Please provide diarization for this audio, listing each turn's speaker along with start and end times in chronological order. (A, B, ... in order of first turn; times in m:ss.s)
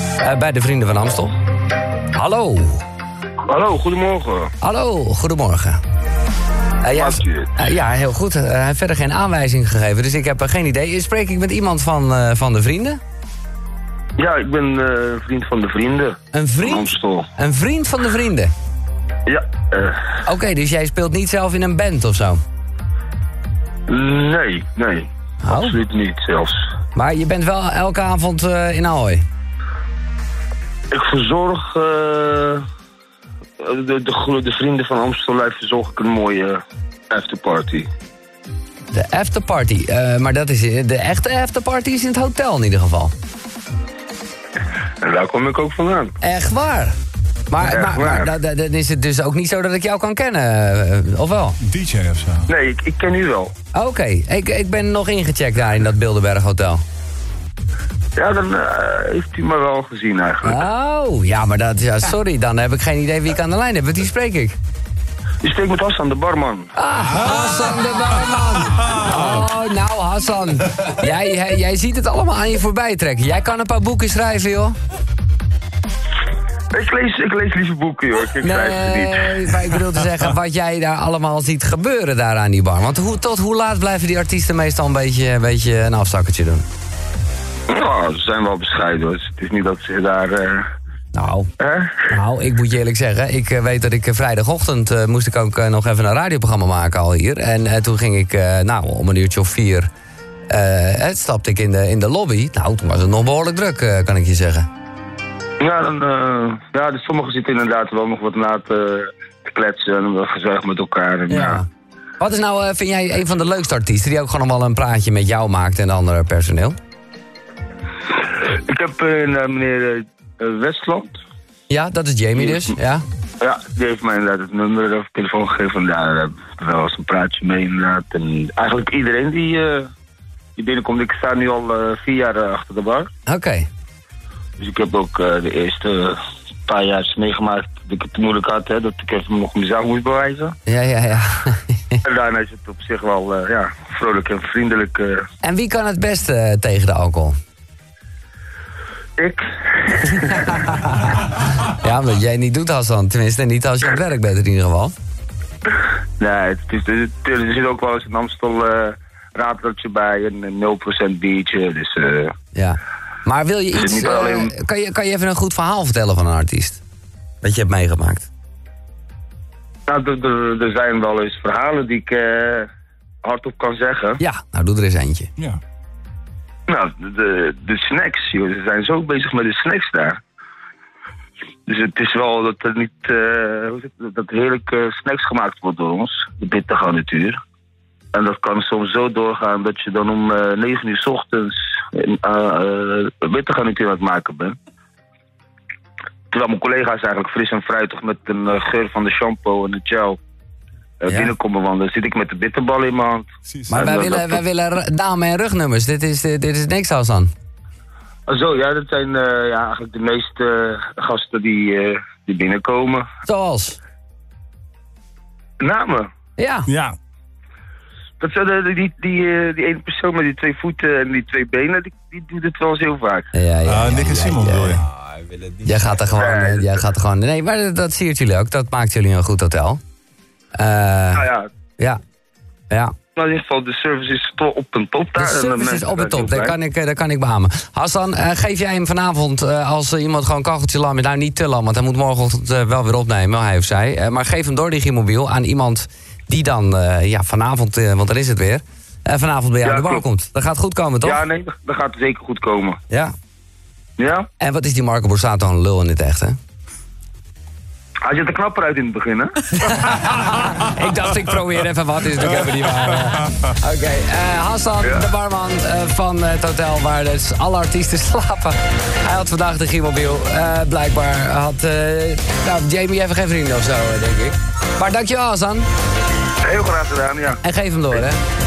0:00.2-0:01.3 A
0:02.1-0:02.8 A
0:03.5-0:04.5 B
0:04.6-0:05.8 A
0:06.8-0:13.0 A
0:06.9-0:07.5 B
0:14.2-0:17.3 B
0:16.3-0:18.5 A
0:19.3-0:20.1 B
0:20.2-0:22.4 A
0:23.9-0:26.6 B
0:25.4-0:25.8 A
0:26.9-0:29.2 A
0:30.9-0:32.6 B
0:33.6-0:37.9 B
0:38.9-0:43.1 A
0:45.0-0:46.2 B
0:46.2-0:47.0 A
0:47.5-0:51.6 A
0:47.6-0:48.3 B
0:51.6-0:52.5 C
0:52.5-0:53.5 B
0:53.7-0:56.8 A
0:58.2-1:00.6 B
1:00.4-1:04.6 A
1:05.4-1:06.7 B
1:06.8-1:14.8 A
1:16.7-1:19.8 B
1:18.4-1:26.6 A
1:27.7-1:30.7 B
1:31.1-1:31.5 A
1:31.6-1:32.1 B
1:32.1-1:39.9 A
1:40.5-1:44.7 A
1:45.6-1:51.6 B
1:51.3-1:51.6 A
1:52.2-1:56.8 A
1:58.4-2:01.2 B
2:01.7-2:03.0 A
2:02.4-2:02.7 B
2:03.4-2:09.9 B
2:10.6-2:13.1 B
2:13.3-2:13.7 A
2:14.6-2:20.5 B
2:20.7-2:22.0 A
2:22.0-2:25.2 B
2:25.4-2:27.4 A
2:29.2-2:30.6 B
2:30.7-2:34.9 A
2:36.2-2:42.3 B
2:42.5-2:46.8 A
2:43.7-2:44.5 B
2:47.4-2:48.3 A
2:49.9-2:52.7 B
2:53.2-2:54.2 B
2:54.2-2:55.3 A
2:56.7-3:00.2 B
3:01.6-3:07.4 B
3:08.1-3:14.6 B
3:16.3-3:20.2 B
3:21.0-3:24.4 B
3:21.1-3:21.3 A
3:23.7-3:27.3 A
3:28.3-3:33.0 B
3:33.2-3:33.8 A
3:35.6-3:36.1 B
3:36.4-3:36.7 A
3:36.7-3:37.0 C
3:38.2-3:43.3 B
3:43.3-3:44.8 A
3:43.6-3:45.4 C
3:45.6-3:49.8 A
3:46.1-3:46.9 B
3:50.5-3:51.2 A
3:51.1-3:51.5 B
3:52.7-3:52.9 A
3:53.2-3:56.6 B
3:55.2-4:11.2 A
4:09.6-4:10.1 B
4:11.0-4:12.8 B
4:14.0-4:14.3 B
4:14.4-4:16.4 A
4:18.0-4:19.4 B
4:19.6-4:35.7 A
4:36.4-4:37.4 B
4:37.4-4:38.2 A